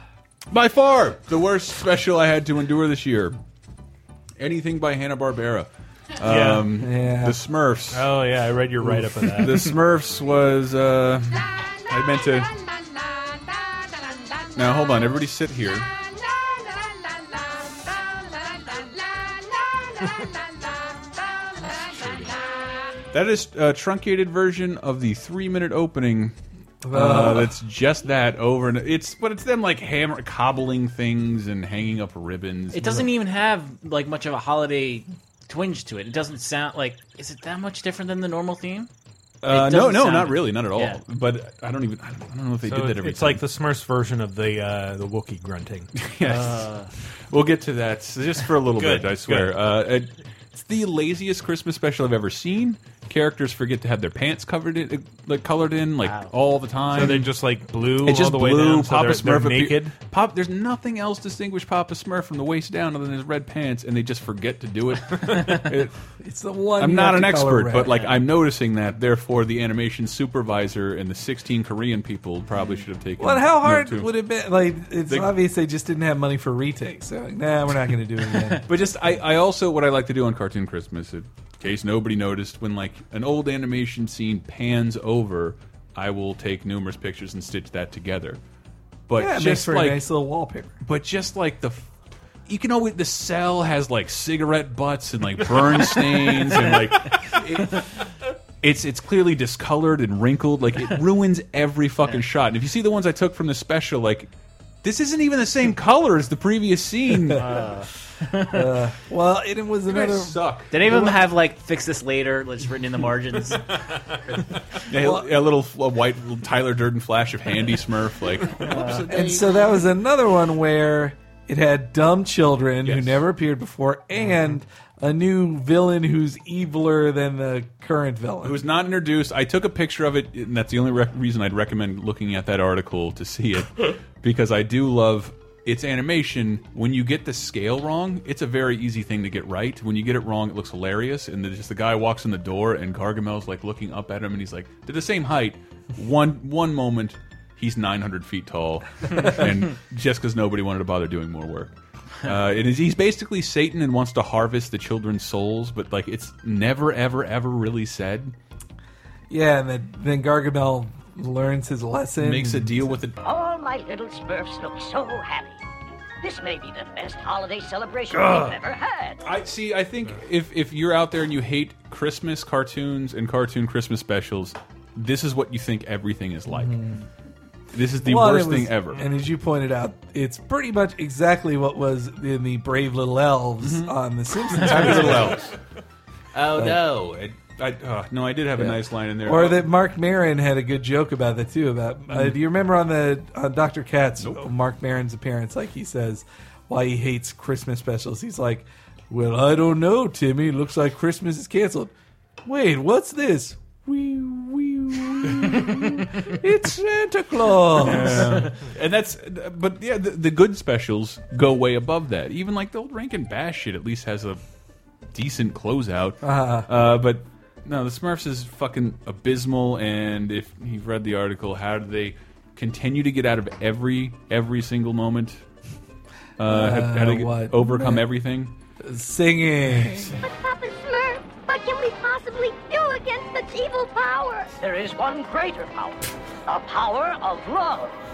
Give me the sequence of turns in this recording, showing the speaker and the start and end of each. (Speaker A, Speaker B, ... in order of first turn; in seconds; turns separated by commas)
Speaker A: 0.5-3.4, Speaker A: 4.4-8.1, Speaker B: 6.2-6.7, Speaker C: 6.8-7.4, Speaker B: 7.9-9.7, Speaker A: 8.8-12.6, Speaker A: 14.6-15.9, Speaker A: 23.1-26.3, Speaker C: 26.8-27.5, Speaker A: 26.9-33.1, Speaker D: 32.7-38.9, Speaker A: 39.4-43.5, Speaker D: 39.5-41.0, Speaker B: 42.6-45.9, Speaker A: 46.0-46.7, Speaker D: 46.2-46.9, Speaker A: 47.3-57.3, Speaker B: 48.8-49.6, Speaker D: 56.0-56.3, Speaker B: 56.9-60.0, Speaker A: 58.0-65.9, Speaker C: 66.2-68.0, Speaker A: 66.8-74.1, Speaker C: 73.2-78.6, Speaker A: 78.7-88.4, Speaker A: 89.1-90.1, Speaker C: 89.2-90.8, Speaker A: 90.8-91.9, Speaker A: 92.5-97.9, Speaker A: 98.6-104.3, Speaker A: 104.8-107.5, Speaker D: 107.4-108.5, Speaker C: 108.5-111.1, Speaker A: 109.9-110.7, Speaker D: 110.7-113.6, Speaker A: 114.9-119.5, Speaker C: 115.0-115.3, Speaker D: 118.7-119.0, Speaker C: 118.9-128.6, Speaker A: 122.8-123.2, Speaker A: 128.4-151.7, Speaker A: 152.2-158.3, Speaker C: 159.3-162.9, Speaker A: 162.2-163.2, Speaker E: 163.2-165.6, Speaker E: 166.2-169.2, Speaker C: 168.1-168.6, Speaker A: 169.2-176.8, Speaker C: 176.5-177.0, Speaker A: 177.7-179.0, Speaker C: 178.0-185.4, Speaker A: 183.6-185.5, Speaker A: 186.3-189.7, Speaker C: 186.6-186.8, Speaker C: 188.6-201.9, Speaker A: 194.2-194.5, Speaker C: 202.4-208.4, Speaker A: 207.8-214.4, Speaker A: 215.1-225.4, Speaker C: 216.2-216.7, Speaker A: 226.4-228.5, Speaker C: 226.5-228.1, Speaker C: 228.8-230.1, Speaker A: 229.7-230.2, Speaker F: 230.2-234.5, Speaker E: 234.6-237.9